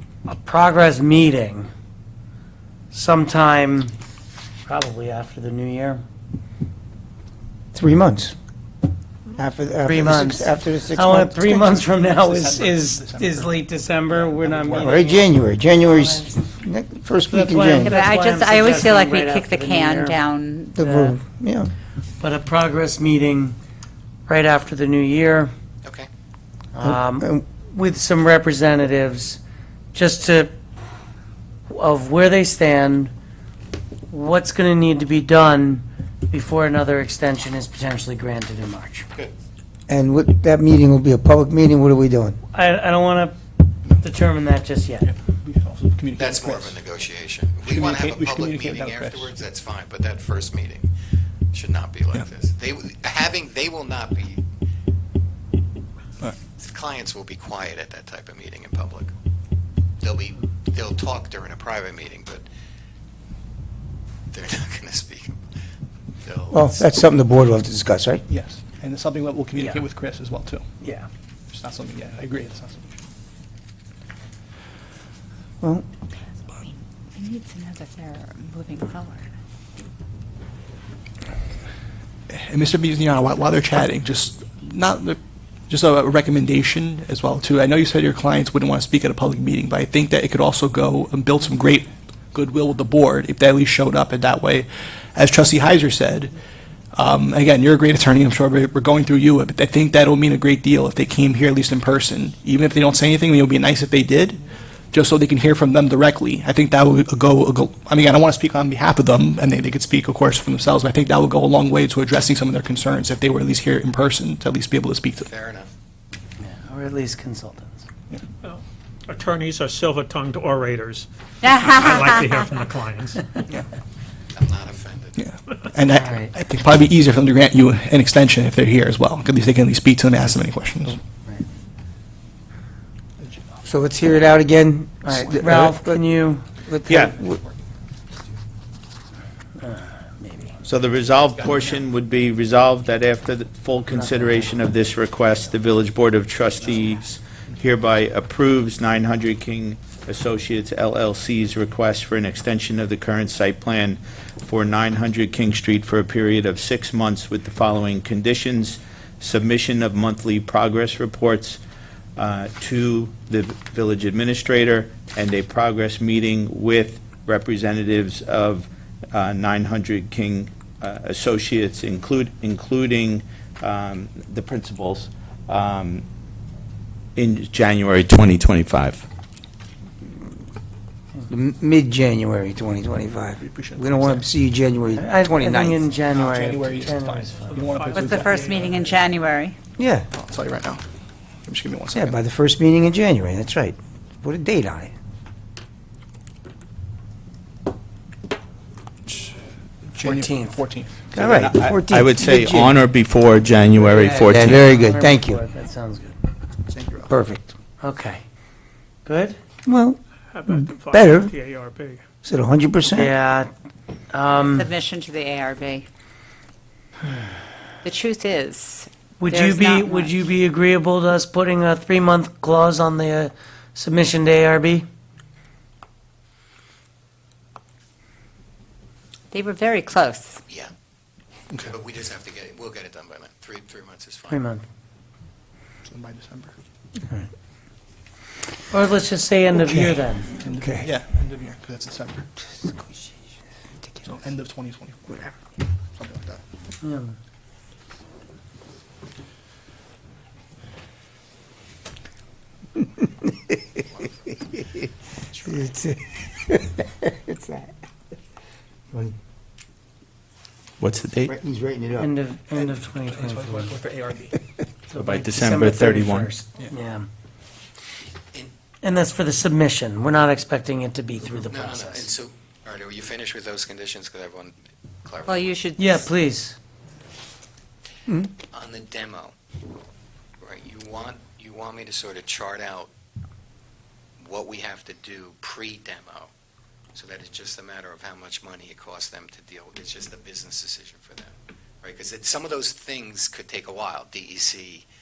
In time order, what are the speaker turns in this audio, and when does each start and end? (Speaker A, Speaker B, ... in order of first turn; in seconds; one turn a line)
Speaker A: 0.2-1.7
Speaker A: 2.9-3.9
Speaker A: 4.7-6.0
Speaker B: 7.7-8.3
Speaker B: 9.4-11.7
Speaker A: 9.8-16.4
Speaker C: 11.9-15.0
Speaker B: 14.8-18.0
Speaker A: 17.3-20.2
Speaker D: 17.8-20.8
Speaker B: 20.7-21.7
Speaker A: 20.8-21.1
Speaker A: 22.2-23.6
Speaker A: 24.3-25.5
Speaker A: 26.7-29.4
Speaker B: 26.8-27.4
Speaker A: 29.9-30.5
Speaker A: 31.7-33.1
Speaker A: 34.1-39.0
Speaker B: 39.9-42.4
Speaker A: 42.5-43.4
Speaker A: 44.0-45.1
Speaker C: 45.0-46.8
Speaker E: 46.2-50.9
Speaker C: 47.6-49.3
Speaker E: 51.5-54.4
Speaker E: 56.6-59.1
Speaker E: 60.0-62.5
Speaker E: 64.3-65.4
Speaker E: 66.2-66.8
Speaker B: 66.5-68.2
Speaker C: 68.3-70.7
Speaker A: 69.5-69.8
Speaker A: 70.8-71.1
Speaker C: 71.5-73.0
Speaker D: 76.6-79.3
Speaker C: 82.3-85.2
Speaker C: 85.7-96.3
Speaker C: 96.9-115.3
Speaker E: 115.2-115.7
Speaker A: 116.4-117.8
Speaker F: 118.4-123.4
Speaker D: 121.4-122.5
Speaker E: 124.3-125.2
Speaker C: 125.2-131.0
Speaker A: 125.9-126.3
Speaker C: 133.2-133.6
Speaker B: 133.6-136.0
Speaker A: 135.0-136.4
Speaker C: 135.4-135.7
Speaker B: 136.7-137.4
Speaker A: 139.6-140.5
Speaker G: 140.6-161.6
Speaker A: 143.9-144.5
Speaker G: 162.2-176.0
Speaker G: 177.2-178.8
Speaker B: 181.3-185.9
Speaker C: 183.4-184.3
Speaker A: 184.9-187.6
Speaker C: 186.1-189.0
Speaker F: 187.5-189.1
Speaker D: 187.9-189.6
Speaker B: 189.8-190.1
Speaker C: 190.1-190.8
Speaker C: 191.4-192.2
Speaker B: 191.9-194.9
Speaker C: 199.9-201.1
Speaker A: 200.0-200.6
Speaker B: 201.1-202.8
Speaker G: 201.1-204.6
Speaker B: 203.8-205.4
Speaker A: 204.0-206.2
Speaker C: 206.7-207.1
Speaker B: 207.1-207.5
Speaker A: 207.8-208.2
Speaker A: 209.0-209.4
Speaker B: 209.7-211.3
Speaker F: 210.3-212.0
Speaker B: 212.2-213.1
Speaker A: 212.9-213.5
Speaker A: 214.1-214.7
Speaker D: 214.5-215.8
Speaker D: 217.8-220.1
Speaker A: 219.2-224.8
Speaker D: 229.3-230.4
Speaker E: 231.5-234.4
Speaker A: 234.3-234.6
Speaker C: 235.9-236.5
Speaker A: 238.7-240.3
Speaker B: 239.6-240.0
Speaker C: 240.4-242.2
Speaker B: 240.6-240.9
Speaker C: 244.0-245.2
Speaker C: 246.0-246.4
Speaker A: 246.8-247.1
Speaker B: 255.4-257.6
Speaker G: 260.8-261.3
Speaker B: 261.1-262.1
Speaker A: 262.0-263.8
Speaker C: 263.0-264.4
Speaker A: 264.9-267.1
Speaker G: 265.2-266.3
Speaker A: 268.8-272.1
Speaker E: 271.4-275.6
Speaker D: 275.3-276.1
Speaker A: 275.8-276.6
Speaker E: 278.5-279.3
Speaker E: 280.4-282.9
Speaker E: 284.2-286.3
Speaker E: 286.9-294.8